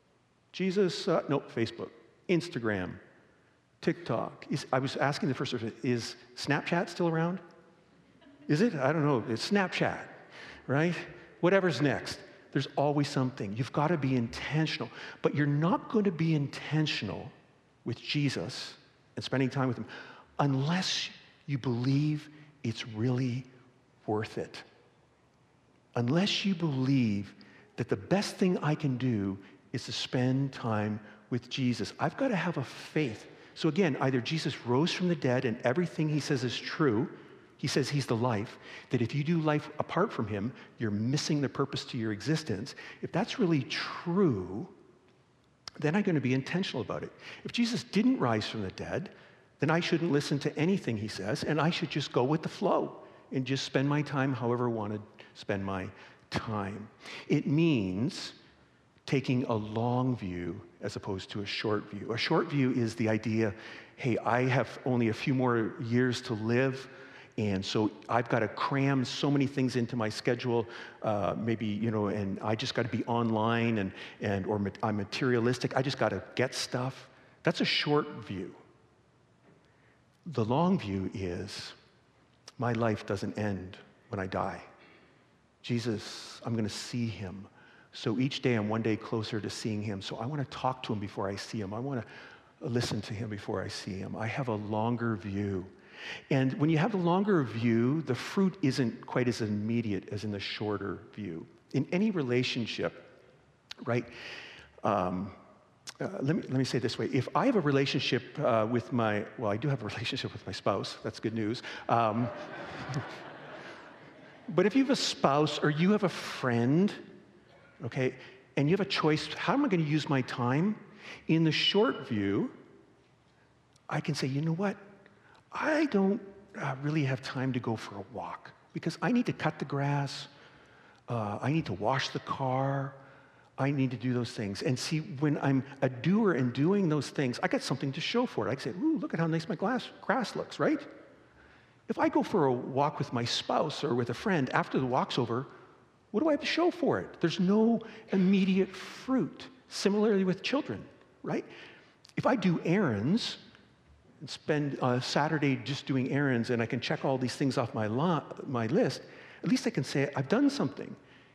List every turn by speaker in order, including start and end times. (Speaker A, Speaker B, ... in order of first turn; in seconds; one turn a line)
Speaker A: 0.5-3.0
Speaker A: 3.8-7.4
Speaker A: 8.5-17.3
Speaker A: 17.8-23.5
Speaker A: 24.0-24.6
Speaker A: 25.9-44.7
Speaker A: 45.8-58.4
Speaker A: 59.0-78.6
Speaker A: 80.2-81.8
Speaker A: 82.6-84.7
Speaker A: 85.6-92.1
Speaker A: 92.6-95.7
Speaker A: 96.3-103.1
Speaker A: 103.8-104.1
Speaker A: 104.8-105.4
Speaker A: 106.0-113.0
Speaker A: 114.5-117.0
Speaker A: 117.8-122.5
Speaker A: 123.9-124.8
Speaker A: 125.5-130.3
Speaker A: 131.1-133.0
Speaker A: 133.6-140.9
Speaker A: 141.9-145.5
Speaker A: 146.1-151.5
Speaker A: 152.2-153.4
Speaker A: 154.2-161.0